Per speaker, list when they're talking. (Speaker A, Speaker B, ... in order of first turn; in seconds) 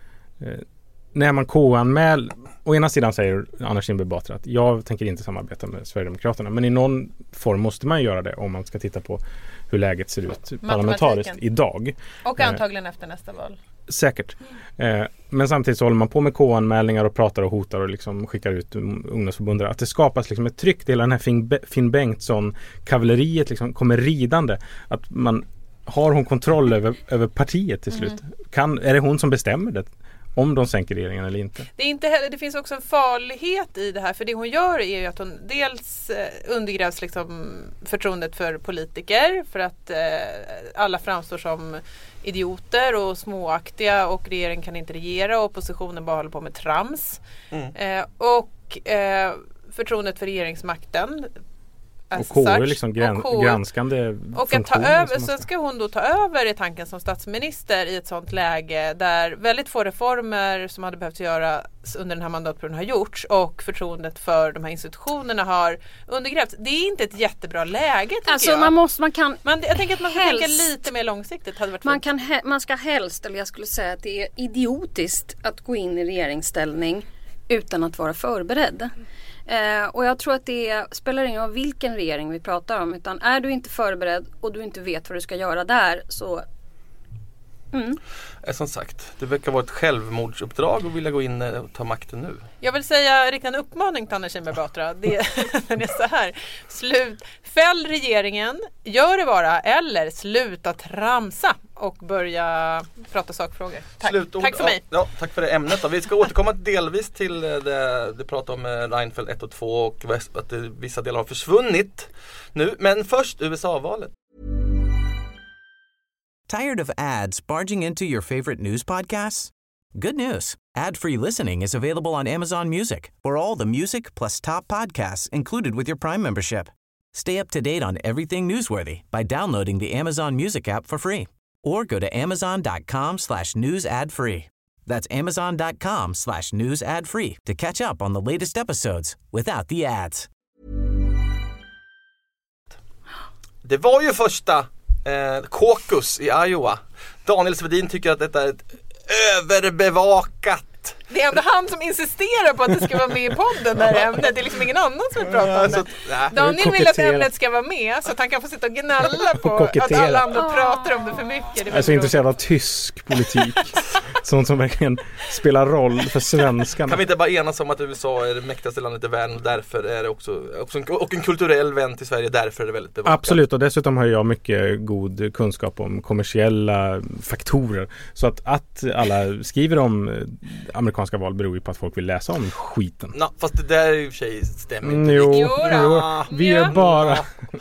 Speaker A: 0.4-12.6, 13.9-31.7, 52.2-55.4, 156.3-157.3, 159.3-160.4, 161.7-167.0, 173.0-183.1, 184.8-187.3
Speaker B: 10.6-11.4, 12.2-13.6, 31.8-47.2, 47.7-51.3, 52.1-53.6, 54.3-68.7, 69.4-72.0, 92.6-104.8, 151.1-162.2, 185.2-186.8
Speaker C: 68.2-70.7, 71.8-78.9, 79.5-86.4, 87.7-88.0, 160.3-161.2
Speaker D: 88.4-92.4, 104.0-114.1, 143.6-151.0, 155.2-156.5, 166.8-173.4, 183.1-187.3
Speaker E: 116.5-140.3